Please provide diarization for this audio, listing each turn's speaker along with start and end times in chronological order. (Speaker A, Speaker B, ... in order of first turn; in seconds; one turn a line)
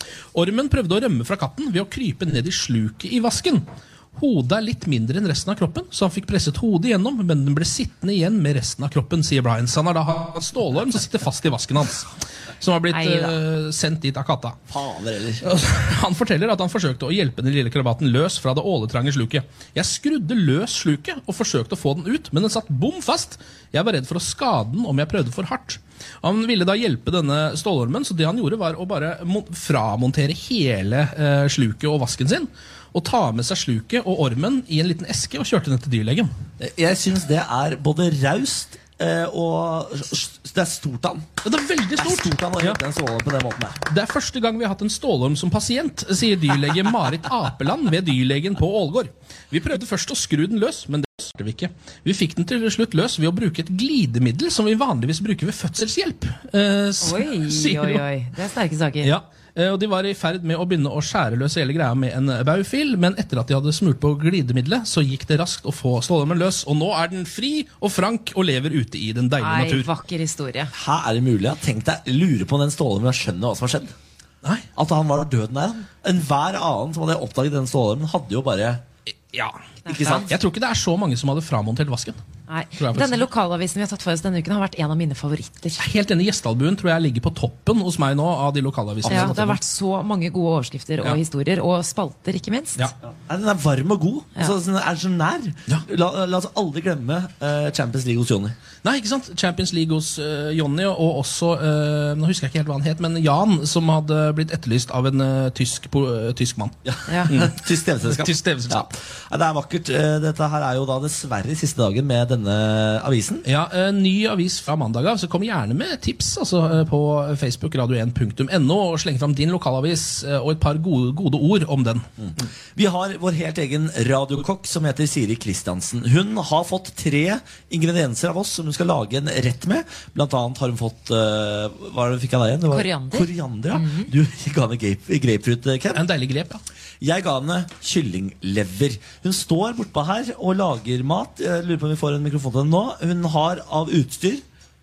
Speaker A: 0.3-14.6
Speaker B: 12.9-13.3
Speaker C: 14.7-15.4
Speaker A: 15.4-36.3
Speaker C: 36.6-41.3
Speaker A: 41.4-42.8
Speaker C: 42.0-43.8
Speaker A: 43.9-58.0
Speaker B: 57.0-59.1
Speaker A: 59.0-69.9
Speaker B: 69.4-70.7
Speaker C: 70.7-73.9
Speaker C: 74.8-78.8
Speaker A: 79.3-82.2
Speaker B: 79.8-80.3
Speaker C: 79.9-80.3
Speaker B: 82.5-85.8
Speaker A: 82.8-83.3
Speaker A: 85.8-89.6
Speaker C: 89.1-89.3
Speaker B: 89.1-92.8
Speaker C: 93.1-98.5
Speaker A: 98.8-106.7
Speaker C: 106.8-113.4
Speaker A: 107.3-108.9
Speaker A: 113.4-122.0
Speaker C: 122.2-136.1
Speaker B: 132.7-134.1
Speaker A: 135.9-136.6
Speaker C: 137.0-144.4